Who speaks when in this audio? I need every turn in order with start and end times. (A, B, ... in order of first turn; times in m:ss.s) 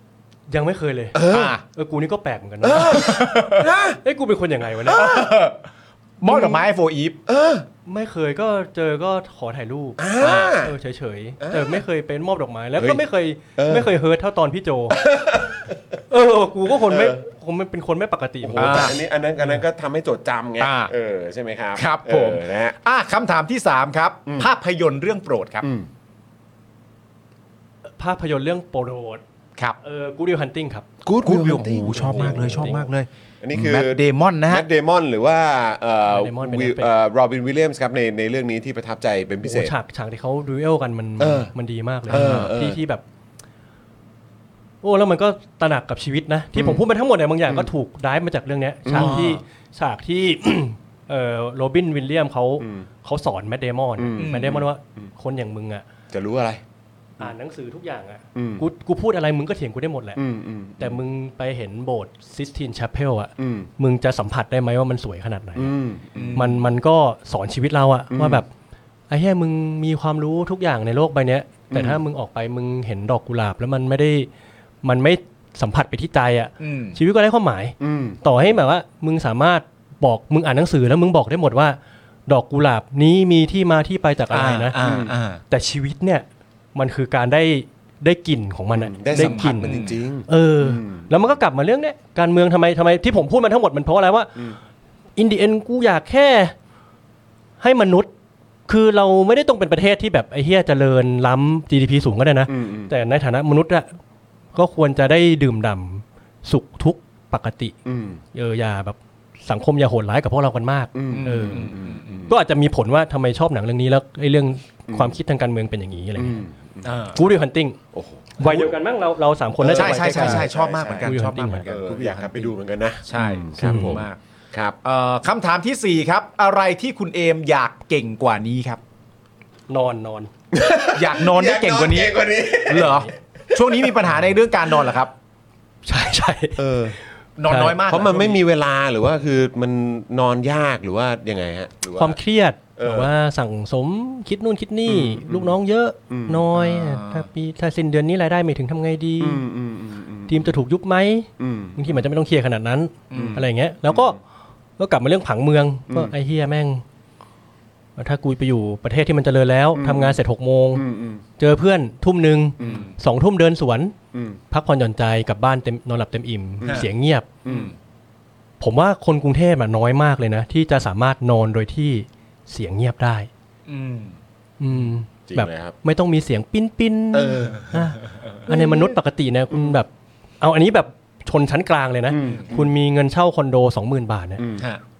0:00.5-0:03.1 A
0:01.1-0:01.5 B
0:01.3-0:01.6 C
0:02.6-0:04.0 B
0:02.8-0:03.7 C
0:04.0-0:05.1 A
0:04.8-0:05.3 B
0:04.9-0:05.6 C
0:06.2-0:07.2 C
0:06.3-0:06.6 A
0:07.2-0:07.6 B
0:07.8-0:15.0 A
0:10.0-0:10.7 B
0:10.2-0:10.6 C
0:11.4-0:11.8 B
0:12.8-0:13.0 B
0:13.6-0:13.9 B
0:14.9-0:16.0 B
0:16.1-0:19.6 A
0:16.7-0:17.2 B
0:18.4-0:22.8 B
0:18.6-0:19.0 C
0:20.6-0:20.9 C
0:21.8-0:25.7 C
0:25.6-0:25.9 B
0:28.0-0:29.2 A
0:29.8-0:30.8 A
0:31.0-0:32.8 B
0:31.2-0:34.6 C
0:32.1-0:32.9 A
0:33.4-0:39.7 B
0:36.1-0:36.9 A
0:39.4-0:43.0 A
0:41.2-0:41.5 B
0:42.1-0:42.8 B
0:42.1-0:42.4 C
0:44.8-0:55.8 A
0:46.5-0:46.8 B
0:47.4-0:47.7 B
0:48.8-0:49.3 B
0:48.9-0:49.4 C
0:52.6-0:52.9 B
0:54.0-0:55.1 B
0:54.2-0:54.6 C
0:56.1-0:56.6 B
0:57.2-1:00.2 A
0:58.3-0:58.6 B
1:00.2-1:01.0 B
1:00.8-1:05.7 A
1:03.4-1:03.7 B
1:05.6-1:06.6 B
1:06.1-1:06.6 C
1:06.3-1:08.5 A
1:08.1-1:08.4 B
1:09.1-1:14.3 A
1:11.7-1:12.0 B
1:14.8-1:24.8 A
1:16.6-1:17.0 C
1:17.8-1:18.6 B
1:24.3-1:25.4 C
1:24.8-1:25.1 B
1:25.5-1:29.7 A
1:28.7-1:31.2 B
1:29.1-1:30.0 C
1:30.3-1:34.4 A
1:35.2-1:36.5 A
1:37.6-1:38.1 A
1:38.7-1:43.9 A
1:42.5-1:42.9 B
1:44.5-1:47.7 A
1:47.8-1:48.2 B
1:48.3-1:51.8 A
1:50.9-1:52.3 B
1:51.1-1:52.2 C
1:52.3-1:56.4 A
1:54.9-1:55.2 B
1:56.2-1:57.0 B
1:56.8-1:57.2 C
1:57.1-1:57.8 A
1:57.9-1:58.7 B
1:58.4-2:01.6 A
1:59.6-2:01.1 B
1:59.6-2:04.2 C
2:01.6-2:04.8 B
2:03.6-2:04.0 A
2:04.8-2:08.8 C
2:09.7-2:10.3 A
2:10.5-2:14.2 B
2:10.9-2:15.1 C
2:12.7-2:13.1 A
2:15.8-2:16.6 A
2:16.6-2:17.0 B
2:17.4-2:18.4 C
2:17.5-2:17.8 A
2:17.8-2:22.2 B
2:22.0-2:29.4 A
2:22.8-2:23.1 B
2:24.9-2:25.6 B
2:26.1-2:26.5 B
2:26.5-2:27.3 C
2:29.2-2:30.5 B
2:30.3-2:34.2 A
2:31.4-2:32.0 B
2:33.1-2:33.4 C
2:33.1-2:34.1 B
2:34.8-2:36.8 A
2:38.0-2:40.8 A
2:39.7-2:40.2 B
2:40.7-2:41.2 B
2:41.4-2:43.9 A
2:42.6-2:42.9 B
2:42.6-2:42.9 C
2:44.1-2:44.4 B
2:44.5-2:47.3 A
2:46.6-2:46.9 B
2:47.4-2:47.7 B
2:47.4-2:47.7 C
2:48.6-2:53.3 A
2:53.7-2:54.2 C
2:54.6-2:59.9 A
2:55.3-2:55.8 B
2:57.1-2:57.8 B
2:57.7-2:58.9 C
2:59.5-2:59.8 B
3:00.4-3:04.4 A
3:02.1-3:02.7 B
3:02.2-3:02.5 C
3:04.4-3:04.7 B